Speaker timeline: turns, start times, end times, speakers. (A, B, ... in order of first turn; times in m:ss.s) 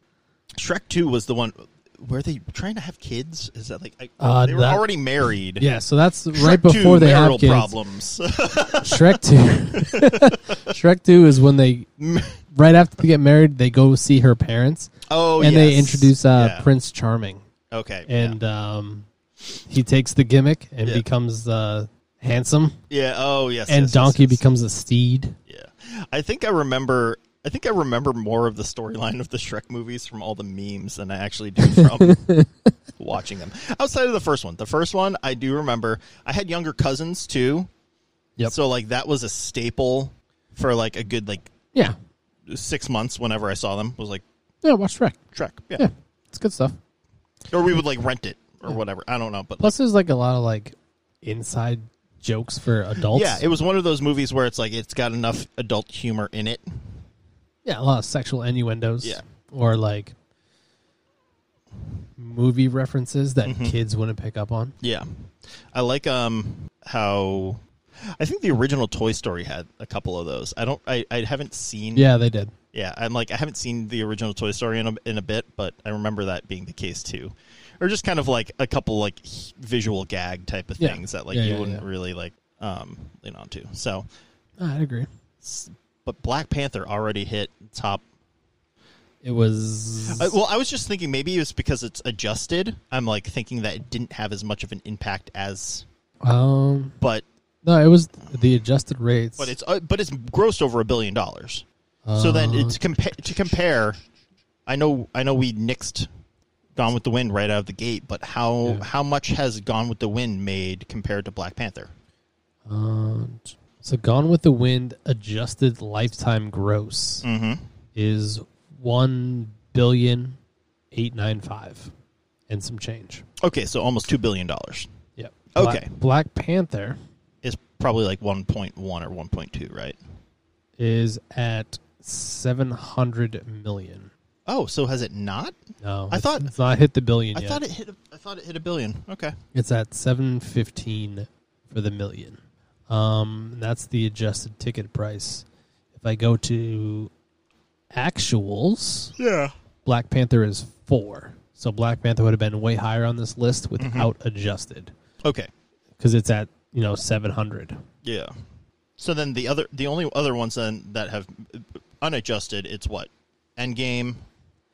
0:00.6-0:05.7 A
0:04.2-0:04.9 B
0:05.6-0:07.7 B
0:06.3-0:09.2 A
0:08.8-0:11.9 B
0:09.7-0:10.4 A
0:12.0-0:12.4 A
0:12.5-0:17.4 B
0:15.1-0:16.7 A
0:17.7-0:18.4 A
0:18.1-0:19.1 B
0:19.7-0:22.8 B
0:22.9-0:24.4 A
0:23.7-0:25.4 B
0:25.5-0:32.3 A
0:31.7-0:32.5 B
0:33.0-0:37.7 A
0:38.5-0:41.5 A
0:42.5-0:44.2 A
0:44.6-0:45.2 B
0:45.3-0:45.9 A
0:45.8-0:46.8 B
0:47.5-0:49.7 A
0:49.6-0:53.4 B
0:53.0-0:56.8 A
0:57.6-1:00.2 B
1:02.2-1:04.8 B
1:03.4-1:03.8 A
1:04.8-1:07.6 A
1:08.2-1:12.1 A
1:12.0-1:12.5 B
1:12.7-1:24.1 A
1:20.8-1:21.8 B
1:24.6-1:25.1 B
1:25.4-1:28.0 A
1:29.2-1:30.3 B
1:30.1-1:35.8 A
1:36.2-1:37.0 B
1:37.6-1:39.5 B
1:39.4-1:41.6 A
1:42.1-1:42.8 B
1:42.2-1:44.0 A
1:44.7-1:46.1 A
1:46.8-1:51.9 A
1:52.7-1:57.3 B
1:57.2-1:57.6 A
1:58.0-2:00.4 B
2:00.9-2:01.9 B
2:02.5-2:03.2 B
2:03.4-2:04.9 A
2:05.2-2:07.0 B
2:05.6-2:05.9 A
2:07.4-2:10.0 A
2:10.8-2:14.1 B
2:14.5-2:15.6 A
2:15.8-2:17.6 B
2:16.1-2:16.5 A
2:17.3-2:19.4 A
2:19.5-2:27.1 B
2:27.9-2:29.1 B
2:29.2-2:29.5 A
2:29.8-2:34.9 B
2:33.8-2:34.1 A
2:35.2-2:35.5 A
2:36.0-2:37.8 B
2:38.0-2:38.3 A
2:39.0-2:44.2 A